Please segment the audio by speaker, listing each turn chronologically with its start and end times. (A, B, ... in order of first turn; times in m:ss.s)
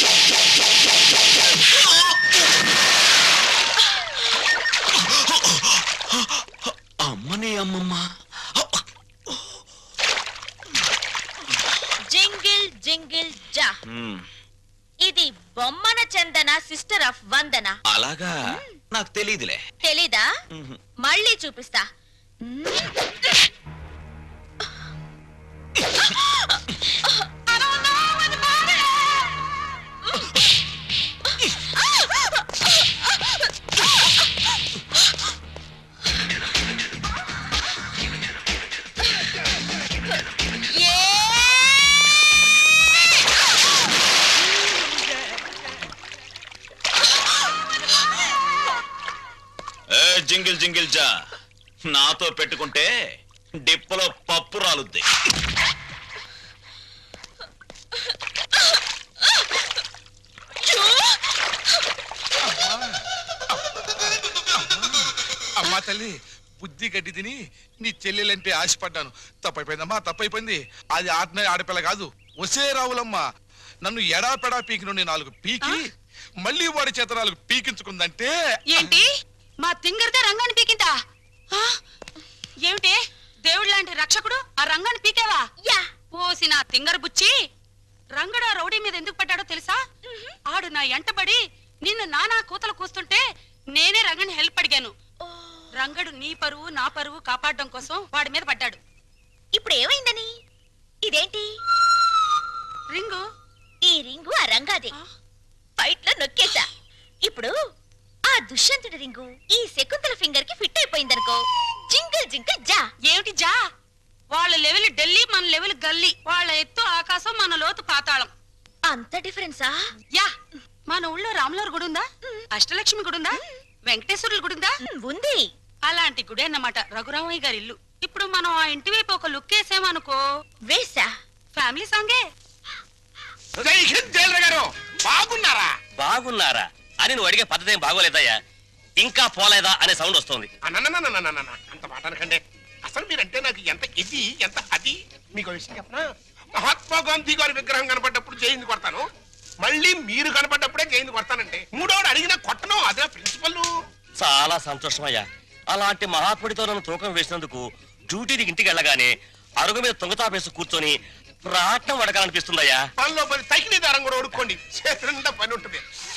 0:05.0-0:08.0 A
0:08.6-0:09.4 A
0:12.1-0:13.7 B
0:13.9-0:14.2 A
0:15.0-0:17.8 B
0:17.9-0:19.6 A
0:19.8-0:20.3 B
0:20.5-0:20.8 A
0:21.0-0:21.8 B
0:22.5-0:22.8 B
0:49.9-0:51.1 A
0:51.8-0:52.9 A
0:53.6-0:55.1 A
1:02.4-1:03.0 C
1:03.5-1:13.2 C
1:13.8-1:15.9 C
1:16.4-1:19.0 C
1:18.7-1:19.1 D
1:19.6-1:21.0 D
1:22.7-1:25.4 D
1:26.2-1:27.3 D
1:28.2-1:29.8 D
1:30.1-1:30.3 B
1:30.5-1:33.2 D
1:33.8-1:34.9 D
1:35.2-1:35.7 B
1:35.8-1:38.8 D
1:39.6-1:40.3 B
1:41.0-1:41.5 B
1:42.9-1:43.2 D
1:43.8-1:44.9 B
1:45.8-1:46.7 B
1:48.3-1:52.9 B
1:53.1-1:53.6 D
1:54.3-1:58.3 D
1:58.9-1:59.8 B
2:00.9-2:04.7 D
2:04.8-2:05.4 B
2:05.9-2:10.2 D
2:10.7-2:11.1 B
2:11.6-2:12.2 D
2:13.6-2:15.7 E
2:16.0-2:18.4 F
2:19.0-2:20.5 F
2:20.6-2:29.0 E
2:29.6-2:33.7 E
2:34.2-2:42.8 F
2:43.0-2:45.8 E